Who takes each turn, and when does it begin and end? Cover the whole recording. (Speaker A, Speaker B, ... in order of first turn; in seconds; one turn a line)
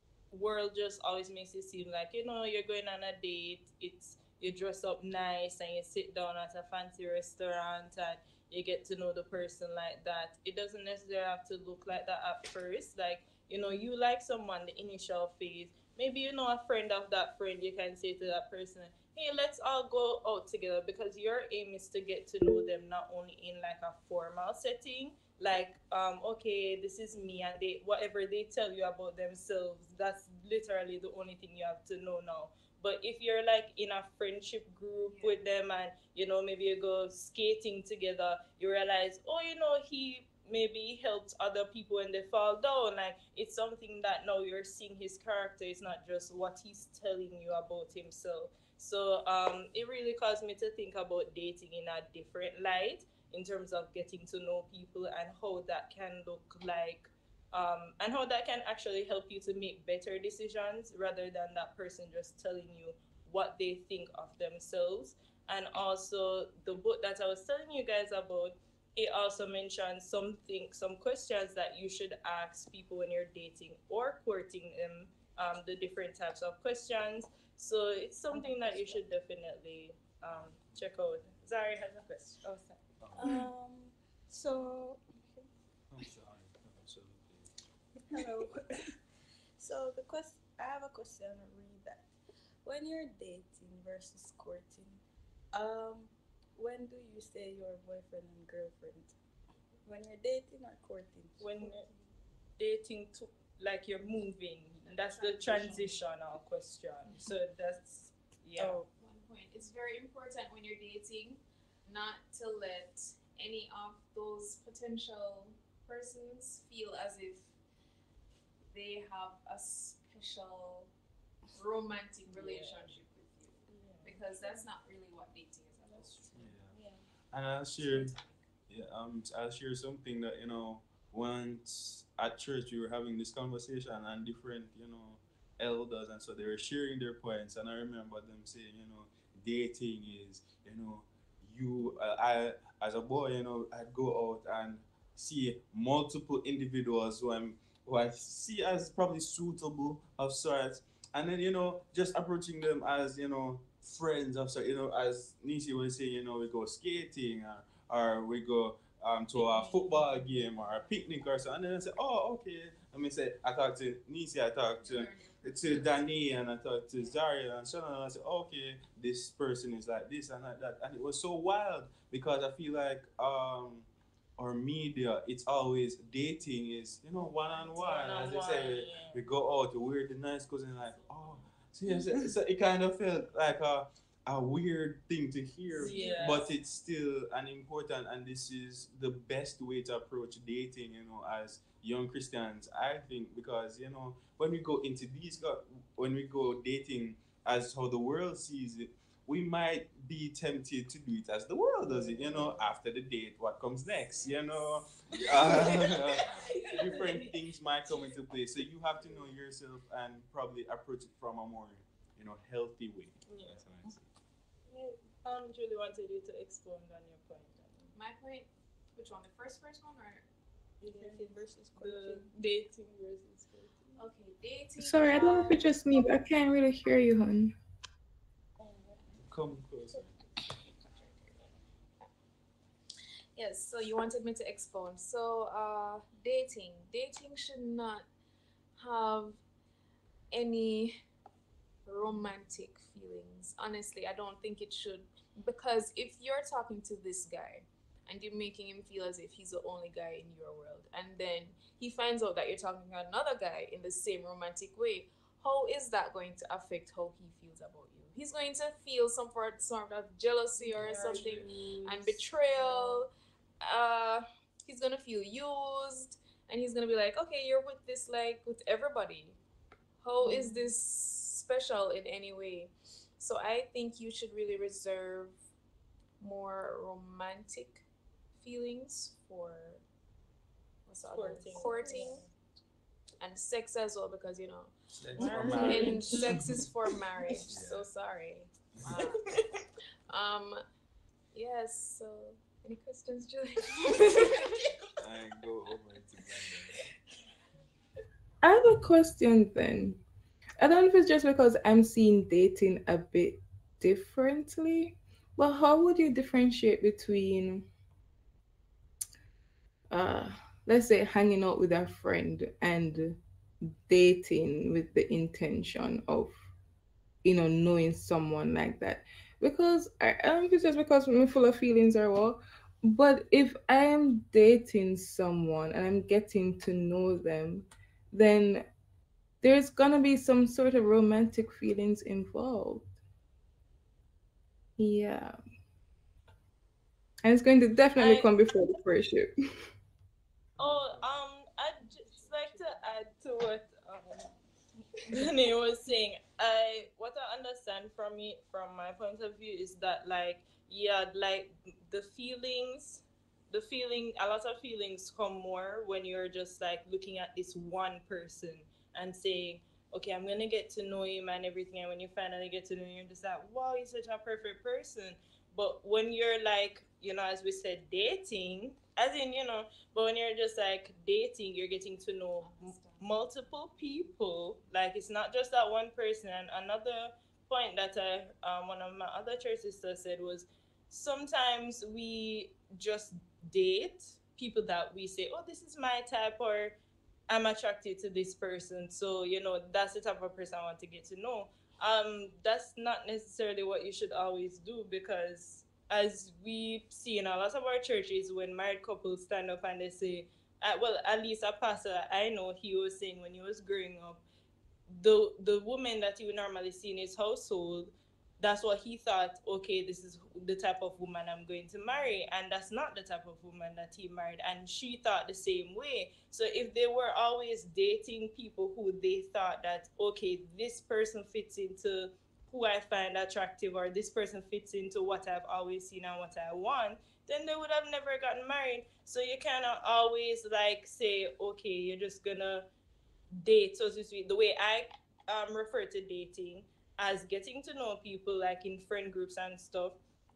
Speaker A: 0.3-83.4
Speaker B: 35.1-35.4
Speaker C: 78.5-78.9
Speaker C: 83.1-85.5
Speaker D: 85.9-87.5
Speaker C: 88.1-88.8
Speaker C: 89.6-92.1
Speaker C: 92.6-99.1
Speaker C: 99.8-102.0
Speaker A: 101.4-101.9
Speaker A: 102.6-108.8
Speaker C: 105.0-105.9
Speaker B: 105.2-105.9
Speaker C: 108.6-108.9
Speaker B: 108.9-117.5
Speaker B: 118.7-120.9
Speaker B: 121.5-126.5
Speaker A: 122.3-122.8
Speaker C: 123.7-124.6
Speaker D: 126.3-126.8
Speaker C: 126.7-127.0
Speaker D: 127.3-128.2
Speaker B: 127.8-128.3
Speaker D: 128.7-173.9
Speaker B: 159.3-160.9
Speaker B: 164.8-166.4
Speaker D: 174.4-214.1
Speaker B: 177.5-177.9
Speaker A: 177.6-179.2
Speaker B: 180.8-181.5
Speaker A: 185.7-186.5
Speaker B: 185.7-186.5
Speaker B: 201.9-202.3
Speaker B: 204.2-204.6
Speaker B: 205.4-207.3
Speaker A: 206.3-207.2
Speaker A: 213.3-213.7
Speaker A: 214.8-217.9
Speaker B: 217.9-220.2
Speaker C: 220.8-222.3
Speaker A: 220.8-223.7
Speaker B: 224.0-225.7
Speaker E: 224.8-227.5
Speaker C: 228.6-229.0
Speaker D: 229.2-230.2
Speaker B: 230.9-231.4
Speaker B: 233.4-238.1
Speaker B: 238.8-239.4
Speaker B: 240.3-241.0
Speaker B: 241.9-263.1
Speaker E: 260.8-261.3
Speaker B: 263.6-269.4
Speaker B: 270.0-275.4
Speaker B: 276.2-277.8
Speaker B: 278.4-279.8
Speaker B: 280.9-282.2
Speaker A: 281.1-282.2
Speaker B: 283.2-289.3
Speaker D: 284.9-286.7
Speaker E: 285.5-285.9
Speaker D: 287.4-287.9
Speaker D: 288.8-289.2
Speaker B: 290.1-290.6
Speaker B: 291.3-294.5
Speaker D: 295.0-296.8
Speaker E: 298.4-300.0
Speaker E: 300.6-307.6
Speaker E: 309.9-316.3
Speaker E: 317.2-328.6
Speaker E: 329.4-332.9
Speaker E: 334.8-335.4
Speaker E: 337.2-339.3
Speaker A: 338.0-338.3
Speaker A: 340.6-344.3
Speaker D: 340.6-341.0
Speaker B: 341.8-342.8
Speaker A: 345.1-386.8
Speaker B: 372.4-373.1
Speaker A: 387.3-404.2
Speaker A: 404.9-432.6
Speaker A: 433.4-440.0